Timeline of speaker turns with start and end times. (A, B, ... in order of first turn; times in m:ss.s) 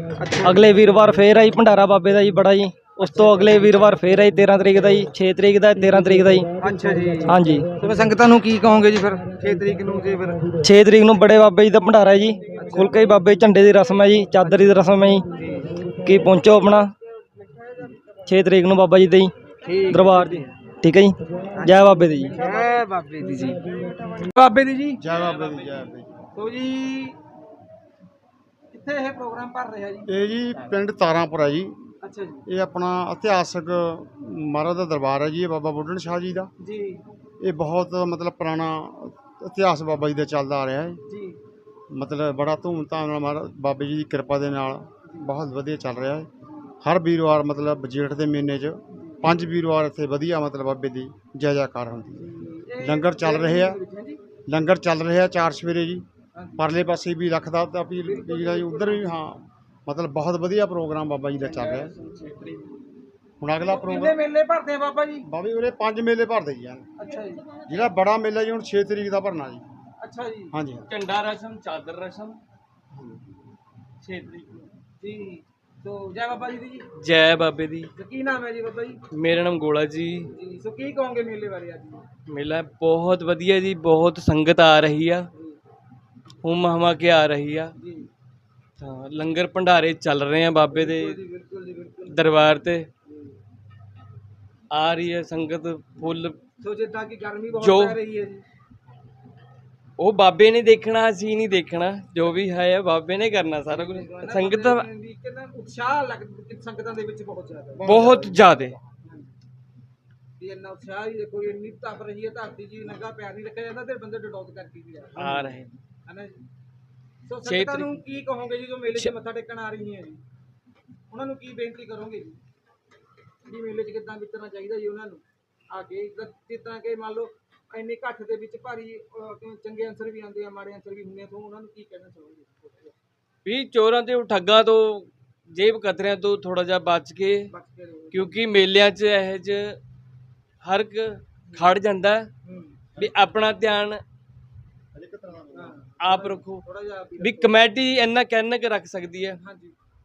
0:00.2-0:00.7 A
0:00.4-0:06.5 B
0:03.0-0:04.0 A
0:06.6-0:10.5 A
0:07.3-0:07.6 B
0:10.6-0:15.2 B
0:12.6-0:13.1 A
0:15.4-0:15.8 A
0:16.0-0:16.9 B
0:18.3-0:19.3 B
0:19.6-0:20.5 A
0:19.9-0:22.3 B
0:21.6-0:25.0 A
0:25.0-0:26.1 C
0:25.2-0:25.8 D
0:26.4-0:27.2 A
0:28.7-0:30.8 A
0:30.1-0:31.8 C
0:32.0-0:32.4 A
0:32.5-0:36.5 C
0:36.6-0:37.0 A
0:37.4-0:41.0 C
0:41.1-0:41.4 A
0:41.9-0:46.3 C
0:46.8-0:52.3 C
0:49.0-0:49.5 A
0:52.2-0:54.2 A
0:52.8-0:53.8 C
0:54.5-0:56.0 C
0:56.4-0:56.9 A
0:56.6-1:01.9 C
0:58.0-0:59.2 A
1:01.3-1:02.3 A
1:01.7-1:02.6 D
1:03.4-1:04.2 C
1:03.6-1:05.2 A
1:05.2-1:06.9 C
1:07.0-1:07.8 A
1:07.7-1:09.6 C
1:10.0-1:10.6 A
1:10.5-1:10.9 C
1:10.9-1:12.4 D
1:14.0-1:14.6 D
1:15.0-1:16.9 A
1:17.0-1:17.9 D
1:18.0-1:19.0 A
1:19.1-1:20.3 D
1:20.3-1:22.0 A
1:22.3-1:25.2 D
1:26.4-1:27.7 D
1:27.8-1:28.1 A
1:28.8-1:31.1 D
1:30.6-1:32.4 A
1:32.1-1:32.9 D
1:34.7-1:36.4 D
1:36.6-1:38.4 A
1:37.6-1:38.0 D
1:40.0-1:44.8 D
1:43.6-1:48.4 A
1:47.8-1:48.3 C
1:47.9-1:48.8 D
1:50.4-1:55.4 A
1:55.2-1:55.7 D
1:55.2-1:55.6 C
1:56.1-1:56.4 A
1:57.3-2:00.2 A
1:57.4-1:58.0 D
2:01.1-2:02.4 A
2:03.4-2:12.9 A
2:13.4-2:17.4 D
2:17.5-2:18.5 A
2:18.1-2:19.7 D
2:20.6-2:22.3 D
2:21.5-2:21.8 A
2:22.4-2:23.0 A
2:23.0-2:24.0 D
2:24.9-2:25.7 C
2:25.5-2:27.7 A
2:26.0-2:26.6 D
2:27.2-2:29.4 D
2:29.1-2:29.7 A